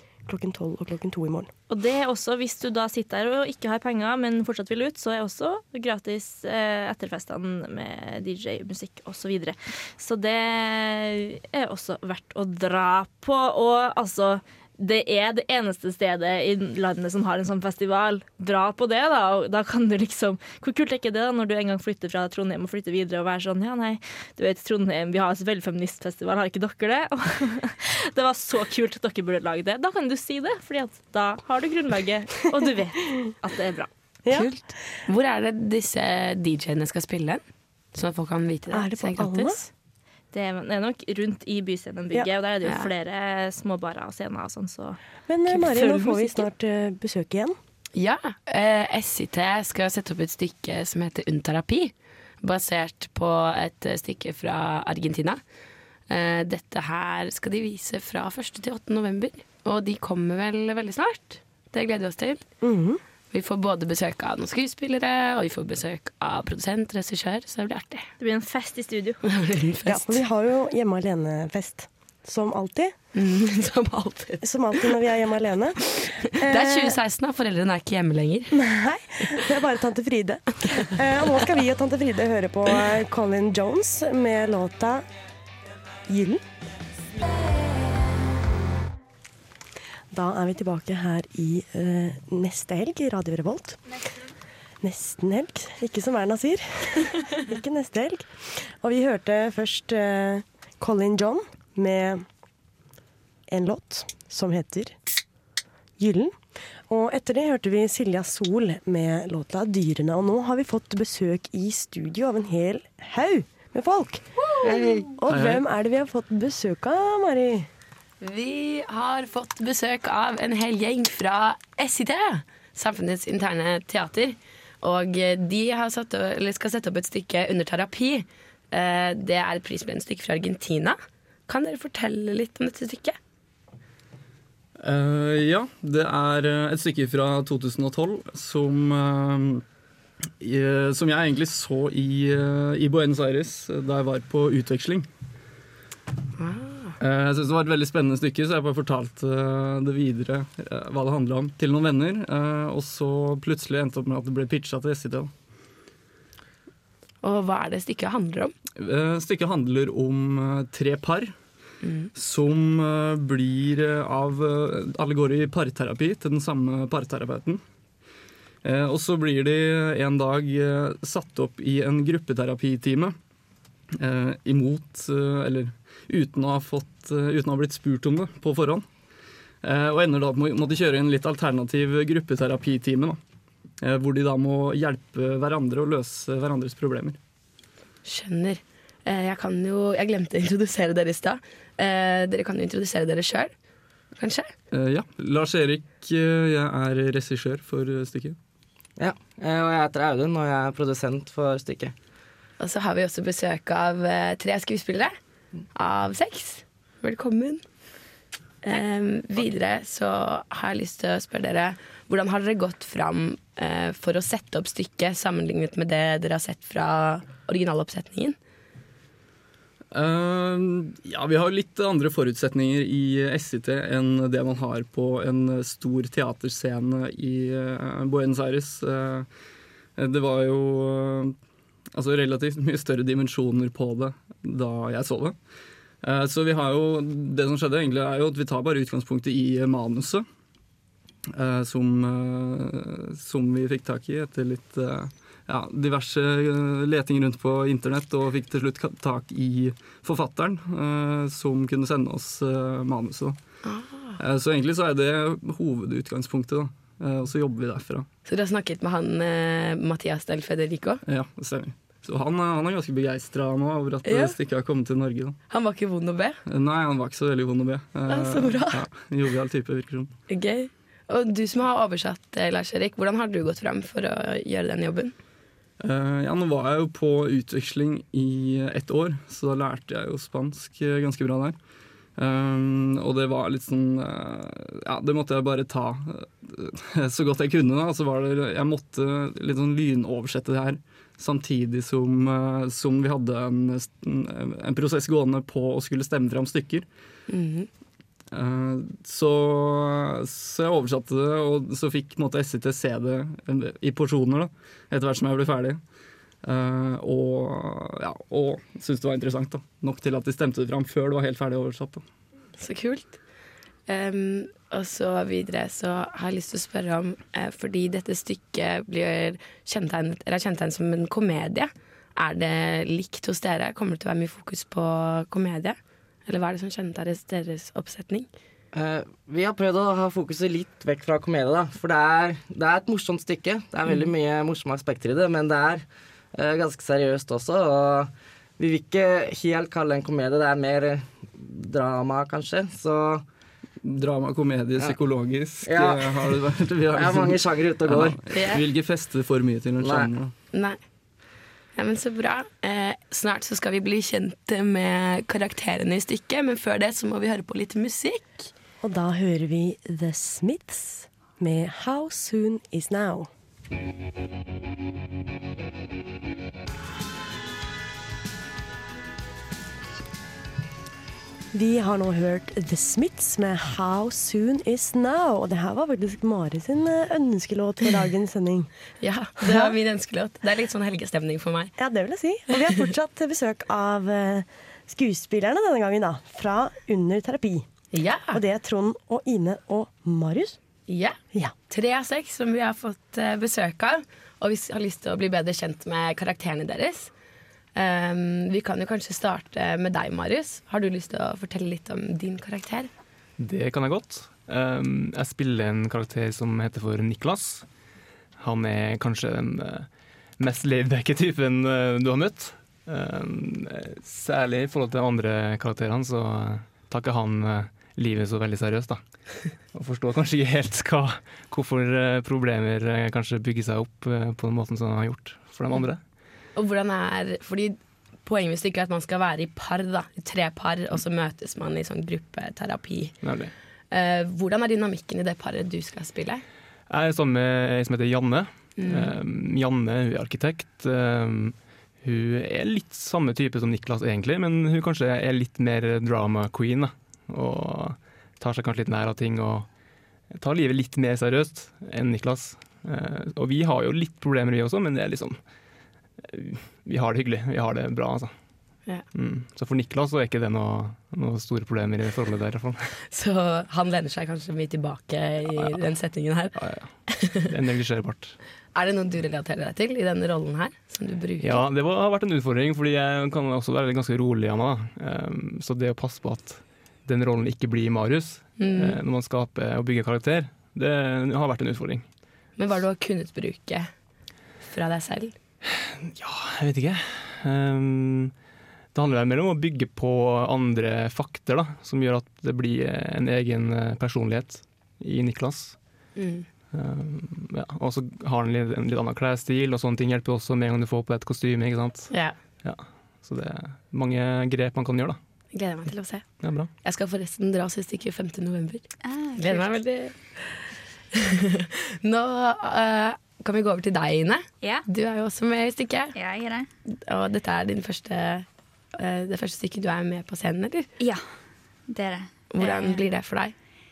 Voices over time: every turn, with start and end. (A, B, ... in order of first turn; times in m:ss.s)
0:00.2-0:01.5 A
0:01.7-0:33.9 B
0:34.2-0:34.5 A
0:34.3-0:37.4 C
0:37.9-0:39.6 C
0:38.7-0:39.6 A
0:40.3-0:45.0 B
0:42.6-0:42.9 C
0:45.3-0:47.6 A
0:45.6-0:46.5 B
0:47.9-0:55.4 C
0:56.1-1:02.5 C
1:02.6-1:03.0 A
1:03.3-1:08.1 C
1:08.2-1:09.2 B
1:09.2-1:10.2 C
1:09.9-1:13.0 A
1:13.2-1:14.4 C
1:14.4-1:17.0 A
1:16.4-1:18.5 C
1:18.5-1:25.0 A
1:26.1-1:26.4 A
1:30.1-1:33.9 A
1:34.8-1:42.3 A
1:43.5-1:45.0 A
1:46.0-1:57.7 A
1:54.4-1:55.2 C
1:55.3-1:55.6 D
1:58.2-2:13.2 C
2:14.8-2:19.6 D
2:20.4-2:25.1 D
2:26.4-2:26.9 C
2:27.0-2:35.3 D
2:37.2-2:38.5 C
2:38.8-2:41.3 D
2:41.8-2:42.1 C
2:42.2-2:47.6 D
2:48.6-2:53.2 D
2:54.0-2:58.8 D
2:59.6-3:03.2 D
3:03.8-3:07.2 D
3:08.0-3:13.5 C
3:14.2-3:14.5 C
3:14.7-3:18.4 D
3:19.0-3:21.9 E
3:22.6-3:25.1 C
3:25.7-3:27.6 C
3:28.6-3:38.4 C
3:39.9-3:49.3 D
3:50.0-3:51.4 D
3:51.9-3:55.4 D
3:56.0-4:00.3 D
4:01.3-4:13.4 D
4:13.6-4:14.1 C
4:14.2-4:18.1 D
4:18.3-4:21.0 C
4:21.0-4:25.4 D
4:24.0-4:24.4 C
4:25.5-4:26.4 C
4:26.5-4:30.2 D
4:28.1-4:28.8 C
4:30.3-4:35.1 C
4:35.8-4:41.6 D
4:42.2-4:56.9 D
4:57.3-4:57.7 C
4:58.3-5:05.8 D
5:06.4-5:12.0 D
5:12.6-5:13.2 C
5:13.9-5:28.3 C
5:28.7-5:43.2 E
5:43.8-5:50.4 D
5:45.6-5:48.2 E
5:48.3-5:48.6 C
5:49.8-5:50.2 E
5:50.5-5:50.8 C
5:51.8-5:58.5 C
5:58.8-6:03.3 A
6:11.5-6:18.7 A
6:19.0-6:21.7 C
6:19.4-6:19.7 A
6:21.8-6:27.7 A
6:27.9-6:28.4 C
6:28.3-6:30.6 A
6:30.9-6:31.2 C
6:31.7-6:37.1 C
6:37.8-6:42.9 C
6:43.4-6:47.8 F
6:48.4-7:06.1 F
7:06.5-7:16.4 C
7:13.2-7:13.5 F
7:16.9-7:35.5 F
7:18.8-7:19.2 C
7:36.2-7:43.0 F
7:43.1-7:47.5 C
7:45.5-7:48.4 F
7:48.7-7:51.6 C
7:51.4-8:02.1 F
7:58.6-7:59.0 C
8:02.6-8:04.1 C
8:04.6-8:05.4 C
8:05.6-8:16.1 F
8:16.2-8:16.5 C
8:16.7-8:25.2 F
8:22.1-8:22.4 C
8:25.5-8:30.7 C
8:26.4-8:26.7 F
8:29.0-8:29.8 G
8:31.6-8:36.1 C
8:36.2-8:36.7 G
8:36.9-8:40.9 C
8:41.0-8:41.2 G
8:41.9-8:43.0 G
8:42.5-8:43.5 C